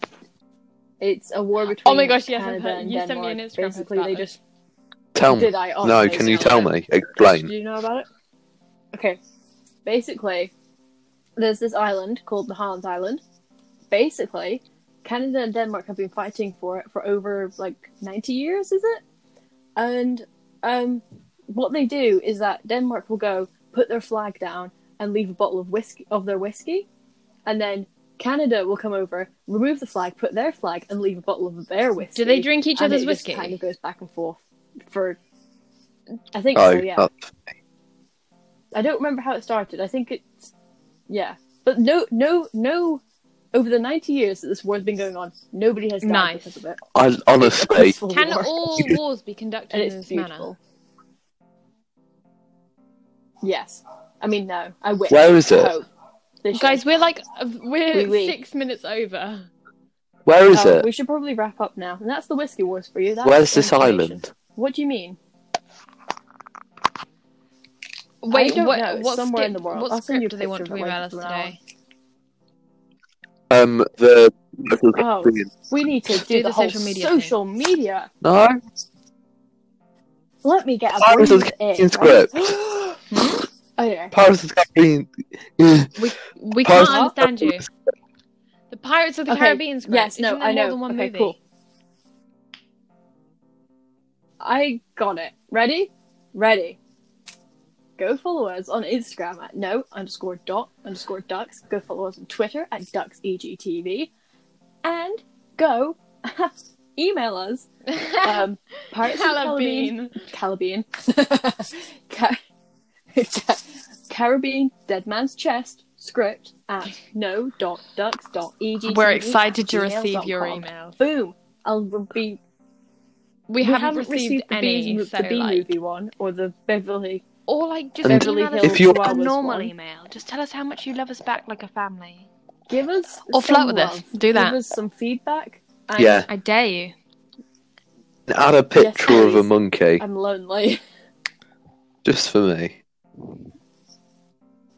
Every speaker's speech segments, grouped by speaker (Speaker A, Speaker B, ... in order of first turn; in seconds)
Speaker A: 1.0-4.4, 5.2-8.1, 8.9-9.2, 9.8-10.5, 11.4-13.2, 13.9-19.0, 19.8-26.9, 27.5-35.2, 36.3-37.1, 38.7-40.5, 41.1-43.0, 43.5-46.8, 47.4-48.8, 49.7-50.6, 53.4-55.9, 56.4-56.8, 57.9-58.4, 60.5-65.2, 68.3-71.5, 75.0-78.1, 80.4-83.1, 83.8-84.1, 86.7-87.1, 89.3-91.4, 94.4-96.8, 98.0-104.1, 104.8-107.7, 108.2-112.4, 113.1-122.4, 123.6-127.2, 128.0-129.7, 132.7-136.3, 138.8-140.8
Speaker B: 1.7-4.3, 32.1-33.6, 46.0-46.6, 48.1-50.5, 56.5-59.5, 68.2-71.6, 76.1-77.3, 83.1-83.5, 86.0-87.7, 88.7-91.4, 107.9-110.2, 118.8-121.0, 123.5-125.7, 127.5-132.3, 133.3-134.6, 136.3-136.9
Speaker C: 5.1-7.5, 36.5-37.5, 47.0-48.0, 55.1-55.7, 60.3-60.9, 63.2-64.3, 73.5-75.5, 78.2-78.6, 81.0-82.5, 84.1-86.0, 86.6-87.6, 128.0-129.2, 136.0-136.3, 138.3-140.0, 142.0-142.8